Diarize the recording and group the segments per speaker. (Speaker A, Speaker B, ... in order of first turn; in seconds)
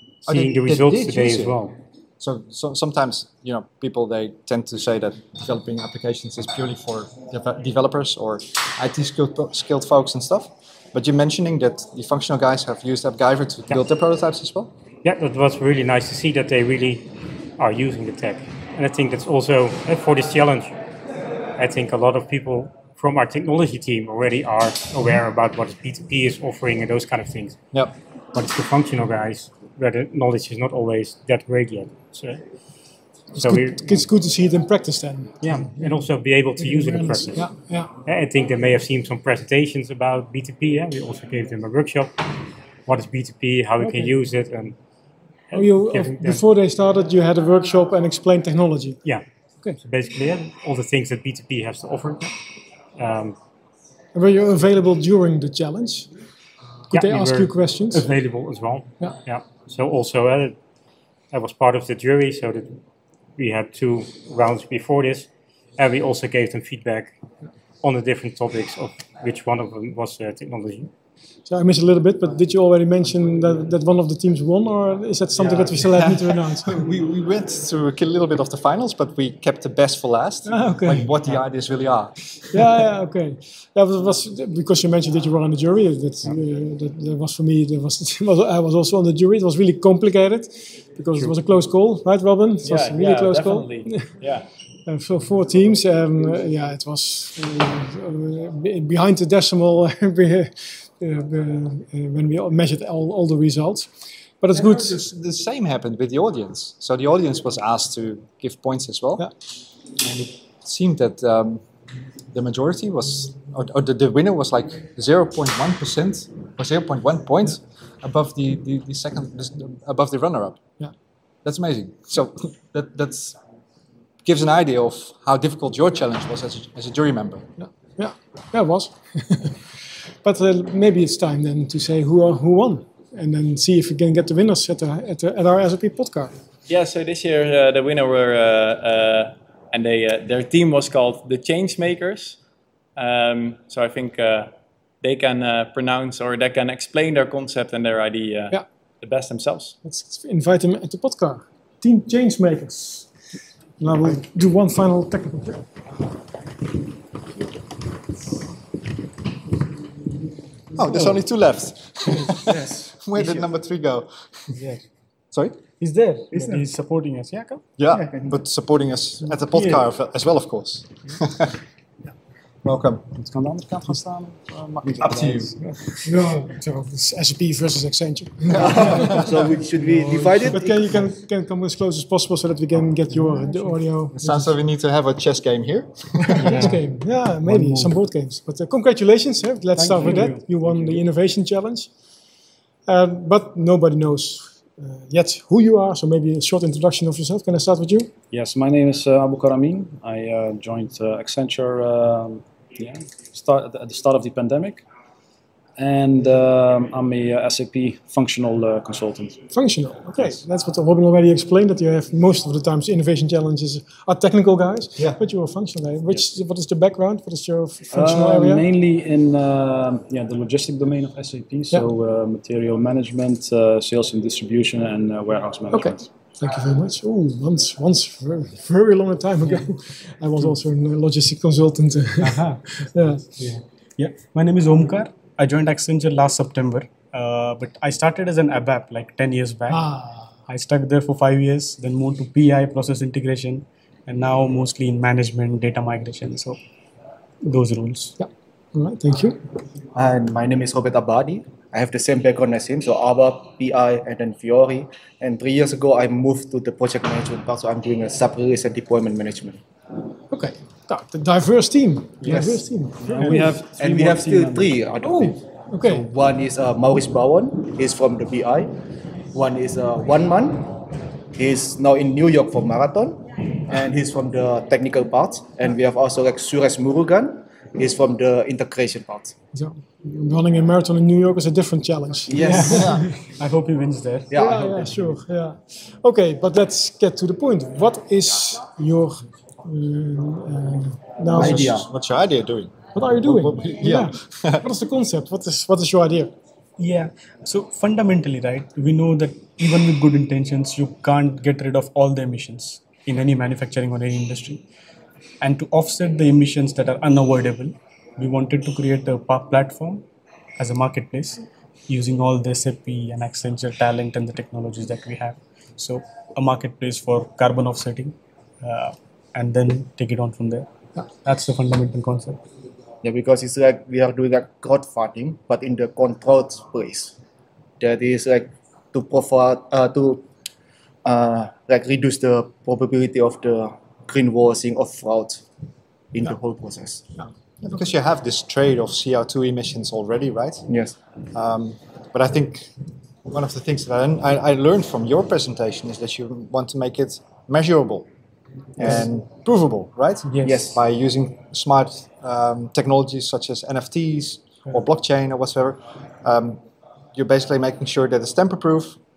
Speaker A: 0.2-1.8, 15.0-20.8, 21.6-27.6, 28.3-32.4, 33.4-34.0, 35.4-37.5, 38.0-42.1, 42.9-44.8, 45.5-46.4, 49.8-52.3, 53.0-53.4, 56.9-60.6, 61.3-62.8, 63.4-67.1, 67.8-70.9
Speaker B: 0.3-1.6, 2.2-14.7, 75.8-82.6, 104.5-109.3, 110.0-111.7, 112.3-120.6, 121.5-123.4, 124.2-127.5, 160.7-164.6, 165.3-165.6, 167.8-171.6, 172.6-173.1, 175.0-175.5, 178.5-179.4, 184.2-186.5, 291.4-294.6, 337.6-340.7, 341.3-342.8, 343.3-348.1, 348.8-356.6, 357.1-359.0
Speaker C: 33.4-35.9, 36.6-37.9, 43.8-44.1, 45.5-49.0, 54.1-56.1, 56.9-58.1, 71.5-76.8, 80.5-81.1, 82.5-94.1, 94.9-105.0, 127.6-129.6, 130.2-136.3, 149.8-153.1, 153.8-155.7, 176.0-179.1, 180.5-184.5, 186.4-191.9, 192.9-198.1, 209.5-218.7, 225.7-233.3, 239.7-240.3, 248.2-249.4, 260.3-263.6, 265.0-266.1, 279.5-283.1, 284.4-291.9, 292.9-296.3
Speaker D: 92.6-94.5, 136.7-142.4, 143.0-149.8
Speaker E: 160.9-161.2, 162.2-162.7, 164.5-164.8, 165.8-168.1, 169.5-169.9, 183.1-184.1, 186.4-186.9, 187.4-188.0, 189.8-190.9, 232.2-239.9, 240.5-246.6, 247.4-248.2, 282.4-284.9, 296.8-304.6, 305.4-310.0, 310.6-320.7, 321.2-322.4, 348.8-349.1, 350.3-350.7
Speaker F: 166.3-166.6, 178.5-180.9, 249.9-259.6, 262.2-262.6, 263.6-268.7, 269.3-270.7, 271.4-279.4, 282.3-283.1, 284.3-284.9, 291.4-291.9, 323.0-327.2, 327.8-330.3, 331.1-335.4, 336.1-337.1, 340.7-341.0, 350.4-350.8
Speaker G: 173.2-175.7, 198.3-204.8, 205.8-209.4, 217.9-226.1, 263.0-264.9